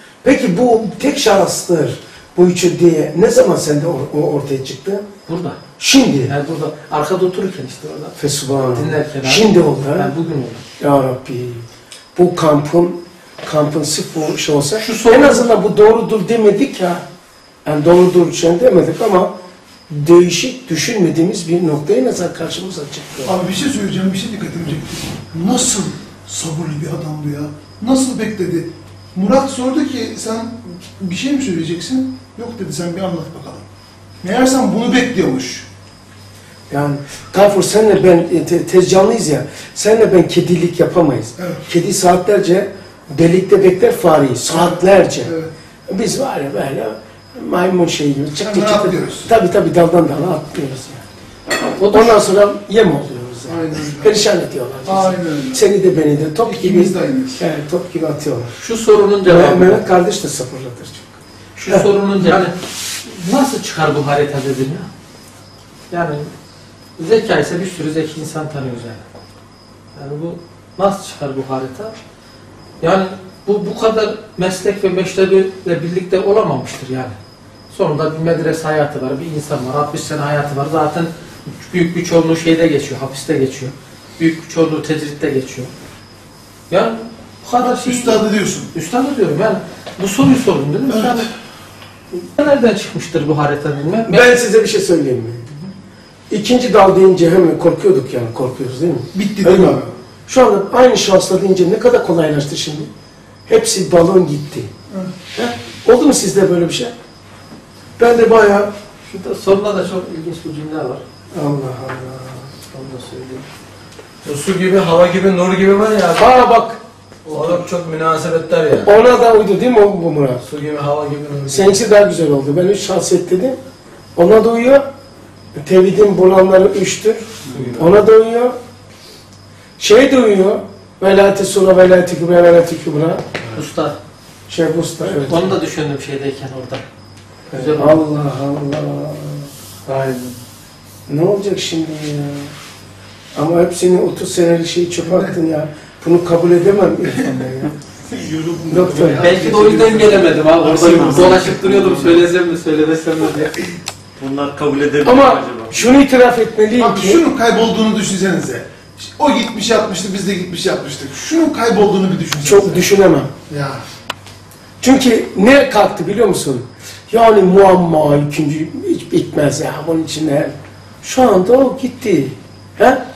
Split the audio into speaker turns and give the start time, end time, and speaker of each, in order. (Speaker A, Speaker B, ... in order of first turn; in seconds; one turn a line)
Speaker A: 0.2-5.0
Speaker B: 5.2-5.6
Speaker A: 5.8-6.3
Speaker B: 6.2-10.6
Speaker A: 8.2-10.1
Speaker A: 10.8-17.1
Speaker B: 14.8-15.5
Speaker A: 17.6-19.3
Speaker A: 19.9-23.4
Speaker C: 23.2-33.6
Speaker C: 34.2-35.7
Speaker A: 36.7-45.3
Speaker C: 44.5-45.5
Speaker A: 45.9-51.0
Speaker C: 48.4-49.3
Speaker B: 51.5-52.2
Speaker A: 51.8-58.6
Speaker C: 53.5-54.2
Speaker C: 54.8-55.6
Speaker C: 56.4-57.4
Speaker B: 58.6-59.8
Speaker A: 59.2-62.4
Speaker B: 61.5-64.9
Speaker B: 65.9-66.3
Speaker B: 67.0-69.0
Speaker B: 70.0-72.0
Speaker B: 72.8-77.2
Speaker B: 77.7-85.7
Speaker B: 86.7-91.3
Speaker C: 87.6-88.7
Speaker C: 90.9-91.2
Speaker B: 92.1-94.3
Speaker A: 94.1-95.5
Speaker A: 96.3-102.9
Speaker C: 99.1-99.9
Speaker A: 103.5-104.7
Speaker A: 105.3-106.9
Speaker A: 108.0-108.7
Speaker B: 109.1-111.0
Speaker A: 111.3-112.5
Speaker B: 112.7-113.4
Speaker D: 114.2-116.3
Speaker A: 116.2-116.8
Speaker D: 117.3-118.9
Speaker A: 118.8-120.4
Speaker D: 120.4-121.8
Speaker A: 121.5-123.6
Speaker A: 124.2-124.9
Speaker A: 125.5-128.6
Speaker D: 127.5-127.9
Speaker A: 129.8-133.3
Speaker B: 133.5-134.0
Speaker A: 134.5-135.5
Speaker B: 135.2-136.8
Speaker B: 137.5-138.0
Speaker A: 137.5-139.5
Speaker D: 139.9-140.2
Speaker A: 141.1-142.5
Speaker A: 143.3-147.7
Speaker A: 148.7-149.3
Speaker B: 149.0-153.7
Speaker C: 149.2-149.9
Speaker D: 149.4-150.3
Speaker E: 150.6-151.9
Speaker E: 154.2-156.0
Speaker A: 155.0-157.2
Speaker C: 156.8-162.9
Speaker A: 162.4-163.3
Speaker C: 163.5-163.8
Speaker A: 164.8-173.0